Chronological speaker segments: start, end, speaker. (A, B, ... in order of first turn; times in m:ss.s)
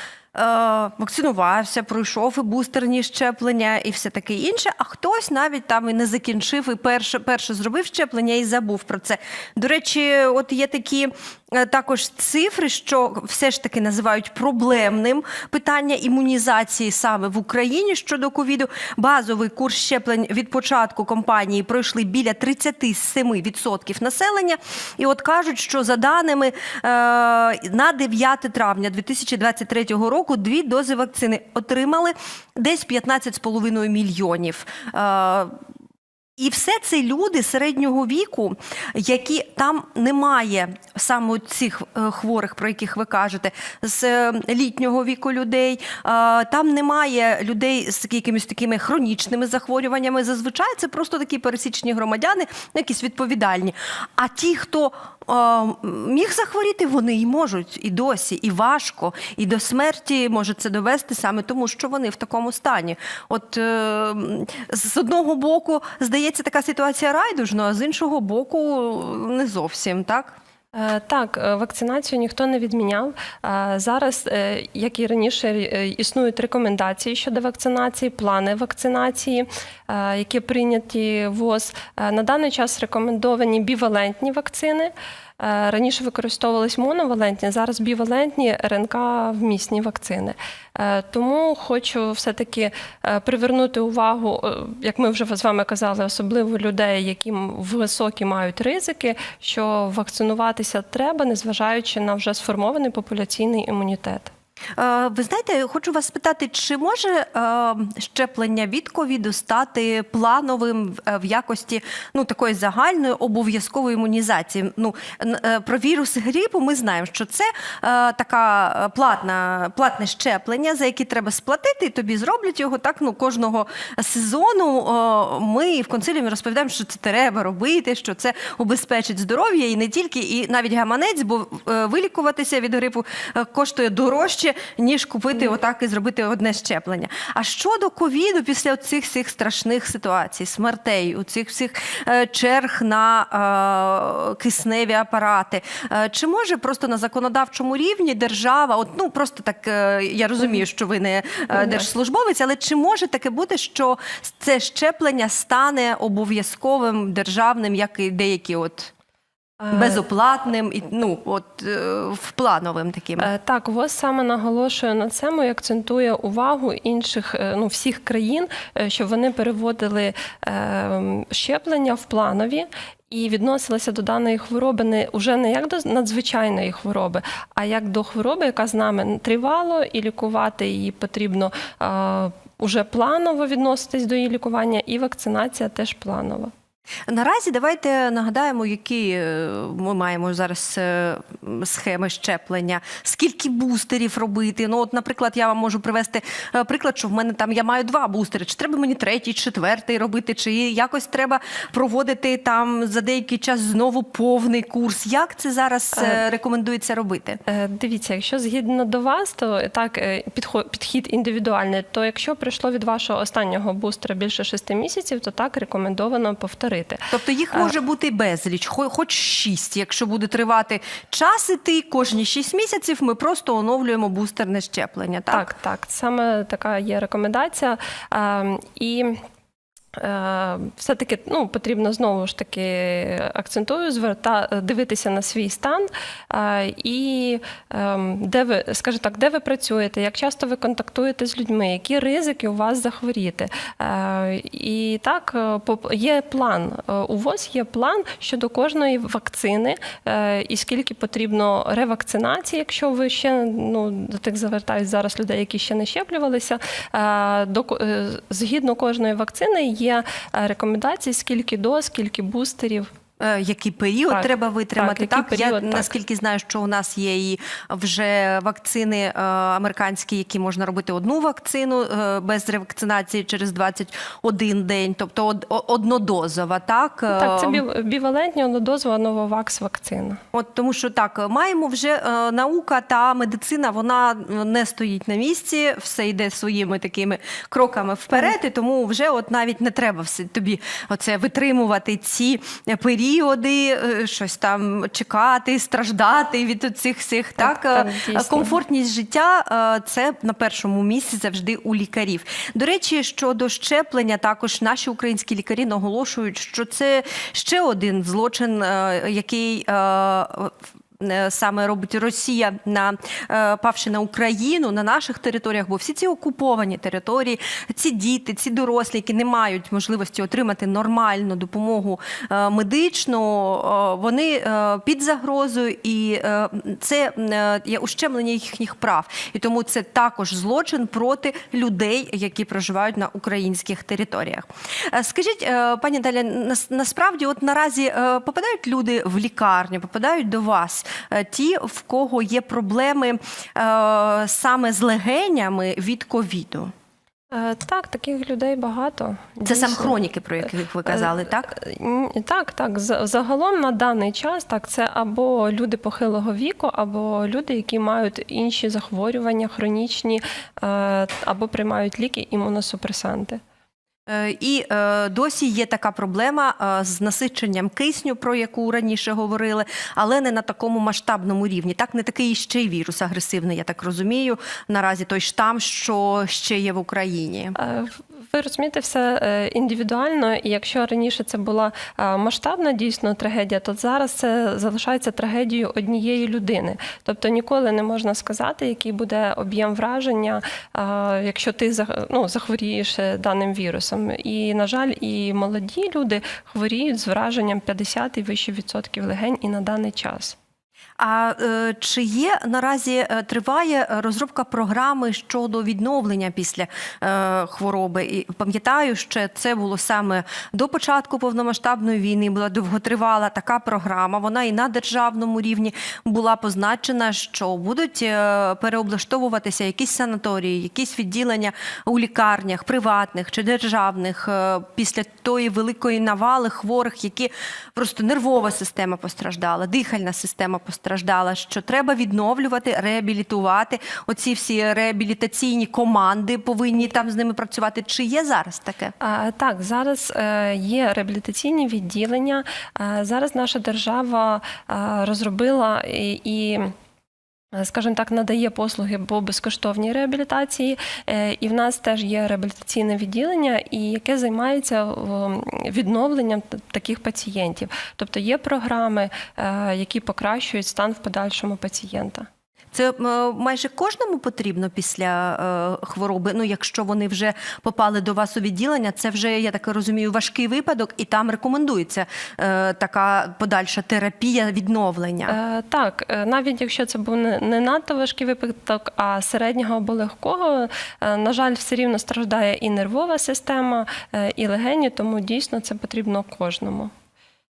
0:00.3-0:35.5 A
0:36.4-1:10.3 A
1:10.7-1:44.3 B
1:44.8-2:38.9 A
2:31.6-2:31.8 B
2:39.6-2:40.0 B
2:39.7-2:43.3 A
2:43.2-3:06.5 B
3:07.1-3:27.4 A
3:25.9-3:26.2 B
3:27.5-3:37.7 B
3:37.1-3:45.5 A
3:45.3-3:49.2 B
3:50.0-4:22.9 B
4:23.2-4:37.6 A
4:24.1-4:25.9 B
4:37.1-4:40.2 B
4:40.3-5:46.7 A
4:57.4-4:58.6 B
5:47.3-5:50.0 B
5:49.4-5:51.5 A
5:50.9-6:03.4 B
6:04.1-6:17.6 A
6:17.6-6:40.4 B
6:41.0-7:18.9 A
7:19.0-7:26.7 B
7:27.5-7:42.3 B
7:42.7-7:55.4 A
7:55.3-8:06.9 B